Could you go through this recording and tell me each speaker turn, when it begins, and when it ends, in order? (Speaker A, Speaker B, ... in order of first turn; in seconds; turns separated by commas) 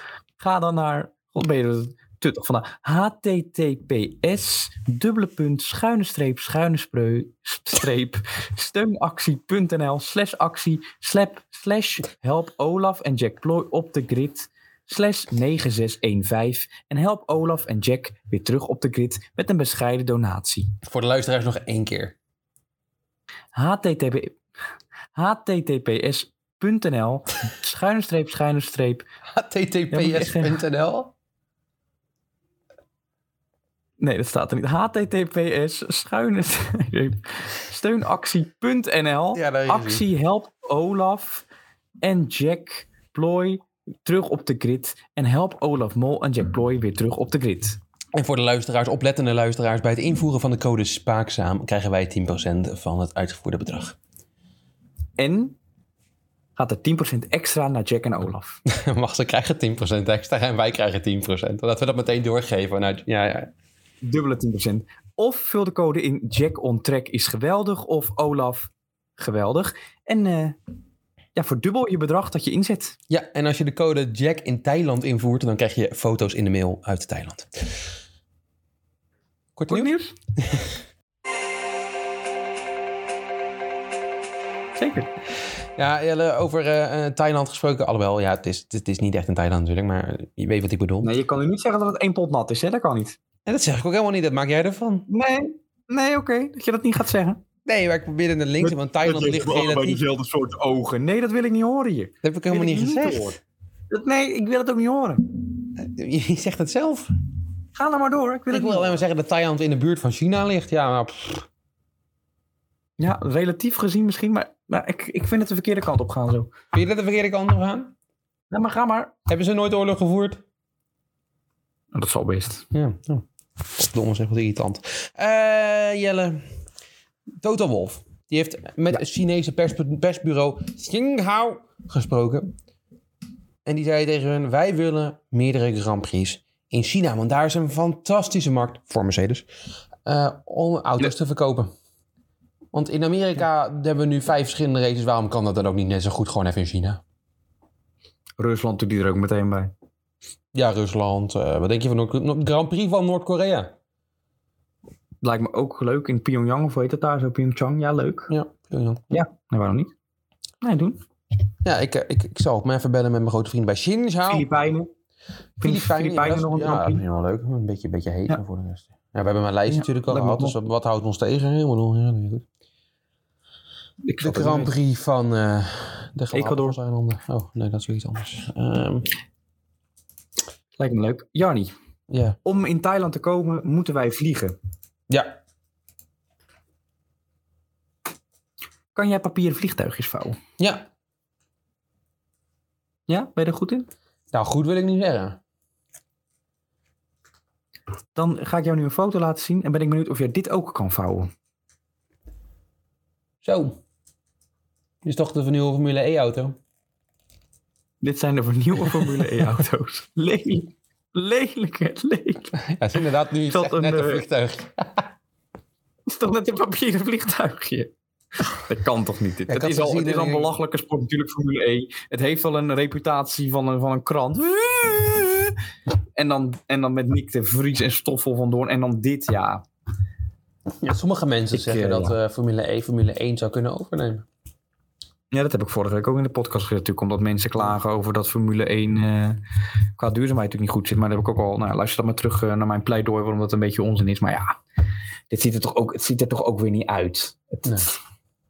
Speaker A: 0.4-20.7, Speaker B: 20.9-22.1, Speaker A: 23.6-24.4, Speaker A: 25.1-29.1, Speaker B: 29.3-31.1, Speaker A: 29.9-30.6, Speaker A: 34.0-41.5, Speaker B: 39.3-40.0, Speaker A: 42.0-47.8, Speaker B: 48.1-54.0, Speaker A: 55.2-55.6, Speaker A: 56.6-58.6, Speaker B: 58.7-63.5, Speaker A: 64.0-70.6, Speaker A: 71.3-72.9, Speaker B: 73.1-77.7, Speaker B: 79.6-80.7, Speaker A: 79.7-80.1, Speaker A: 84.8-85.1, Speaker B: 85.8-91.1, Speaker A: 91.0-93.2, Speaker B: 93.5-95.1, Speaker A: 95.1-97.4, Speaker B: 97.6-100.0, Speaker A: 98.6-103.4, Speaker B: 102.2-103.4, Speaker A: 103.9-105.2, Speaker B: 105.8-107.1, Speaker A: 107.8-109.0, Speaker B: 108.5-111.5, Speaker A: 113.0-116.5, Speaker B: 116.7-117.9, Speaker A: 118.5-119.1, Speaker B: 119.3-120.4, Speaker A: 121.9-122.6, Speaker B: 122.7-126.4, Speaker B: 127.4-132.5, Speaker B: 133.6-139.4, Speaker B: 140.1-141.7, Speaker B: 142.7-147.0, Speaker A: 148.4-149.7, Speaker B: 150.5-153.7, Speaker A: 155.2-158.3, Speaker B: 158.3-159.2, Speaker A: 159.1-159.9, Speaker A: 160.6-161.0, Speaker B: 161.6-164.5, Speaker A: 164.2-164.9, Speaker A: 165.6-167.0, Speaker B: 165.6-172.4, Speaker A: 169.7-170.6, Speaker A: 174.1-174.7, Speaker B: 174.2-179.1, Speaker A: 176.3-176.8, Speaker A: 180.8-181.7, Speaker B: 182.1-182.4, Speaker A: 182.4-184.6, Speaker B: 185.1-185.4, Speaker A: 188.9-190.4, Speaker B: 190.6-190.8, Speaker A: 193.1-193.9, Speaker B: 194.3-195.4, Speaker A: 198.2-201.3, Speaker B: 203.4-203.8, Speaker B: 205.0-206.6, Speaker A: 208.0-212.6, Speaker B: 212.6-215.1, Speaker A: 213.5-214.2, Speaker A: 216.1-217.9, Speaker A: 218.4-225.6, Speaker B: 219.5-220.5, Speaker A: 226.2-229.7, Speaker B: 230.8-234.3, Speaker A: 231.5-232.2, Speaker A: 235.3-239.4, Speaker A: 240.0-244.6, Speaker A: 245.3-247.6